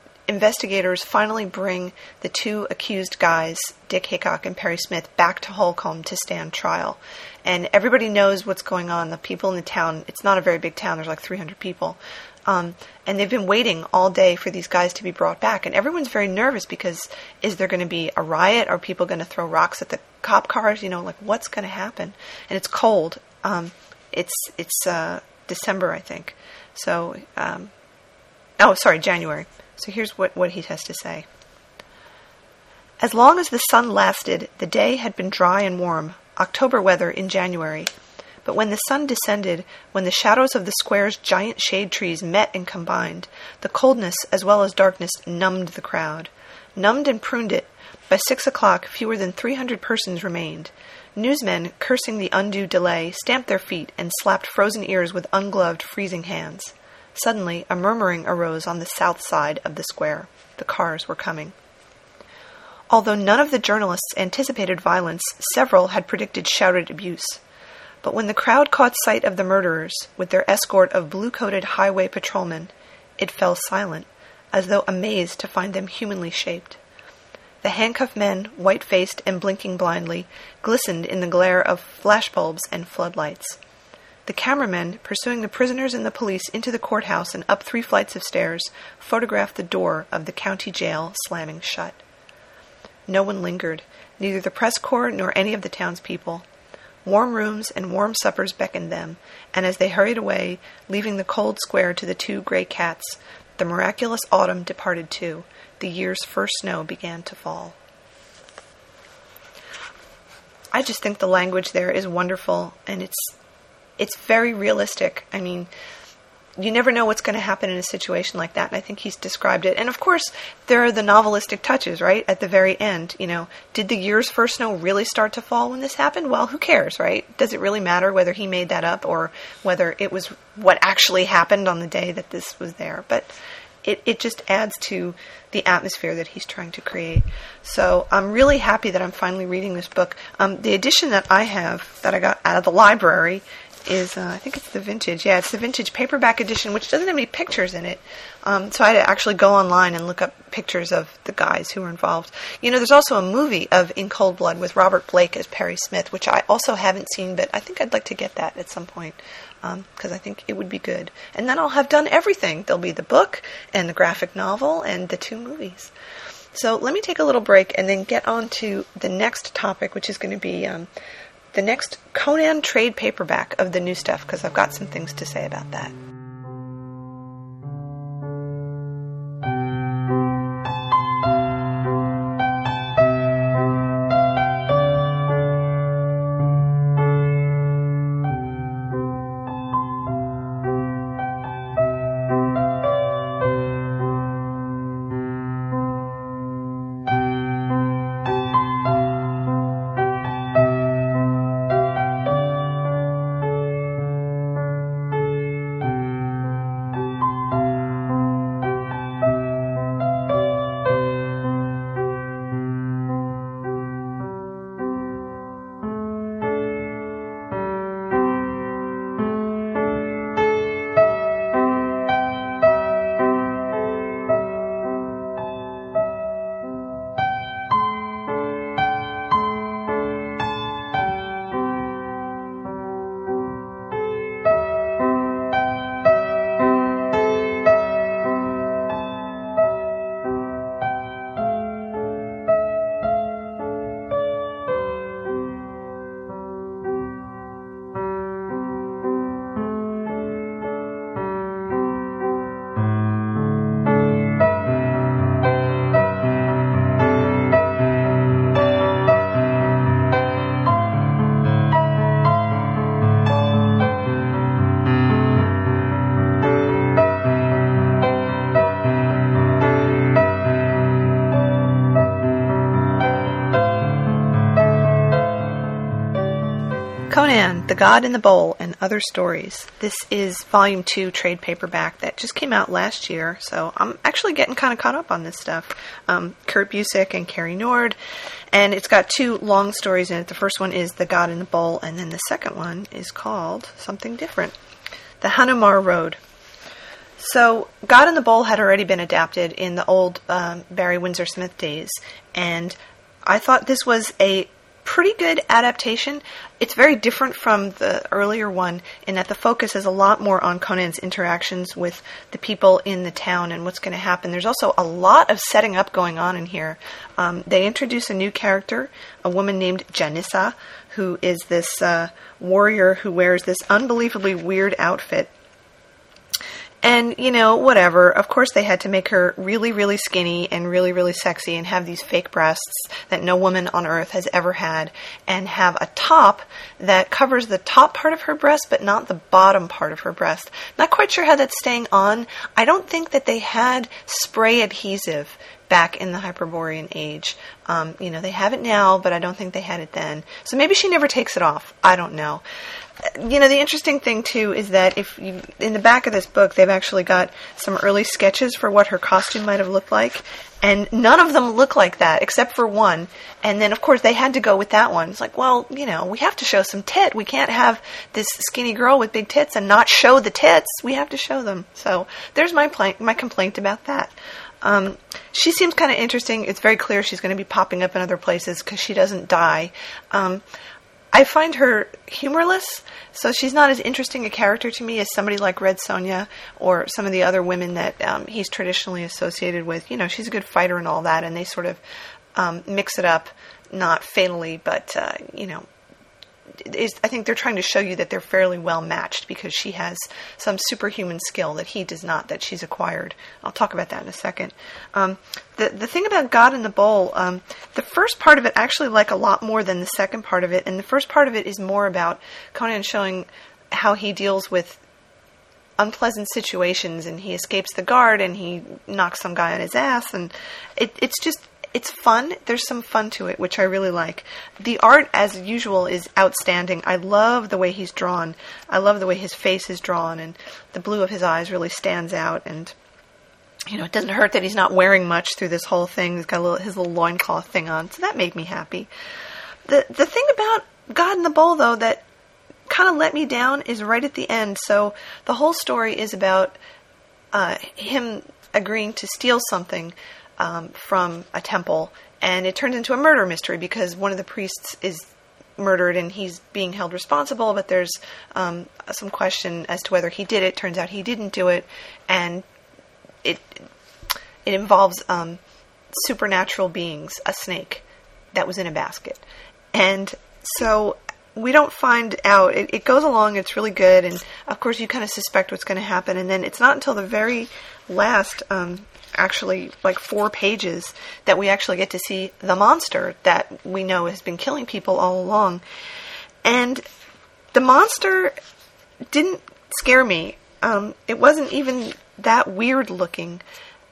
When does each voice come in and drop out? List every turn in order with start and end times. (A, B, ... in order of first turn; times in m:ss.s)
0:00.3-0:27.7 A
0:28.6-0:31.2 A
0:33.0-0:37.9 A
0:38.4-1:01.5 A
1:02.9-1:07.4 A
1:08.0-1:16.8 A
1:17.6-1:23.6 A
1:24.2-1:32.0 A
1:33.1-1:36.4 A
1:37.0-1:47.8 A
1:50.7-1:53.3 A
1:54.0-1:55.7 A
1:56.6-2:13.3 A
2:13.8-2:45.9 A
2:46.5-2:50.9 A
2:51.5-2:55.9 A
4:37.1-4:48.0 A
4:48.5-4:54.5 A
4:55.2-4:56.2 A
4:57.2-5:25.3 A
5:26.8-5:52.4 A
5:53.0-6:20.4 A
6:21.1-6:31.8 A
6:32.4-6:35.6 A
6:36.6-6:54.8 A
6:55.8-7:12.7 A
7:13.7-7:18.9 A
7:19.7-7:22.0 A
7:22.7-7:26.6 A
7:27.3-7:42.4 A
7:43.2-7:43.6 A
7:44.4-7:45.4 A
7:45.9-7:49.2 A
7:49.7-8:05.6 A
8:06.4-8:06.8 A
8:07.5-8:08.4 A
8:09.1-8:13.4 A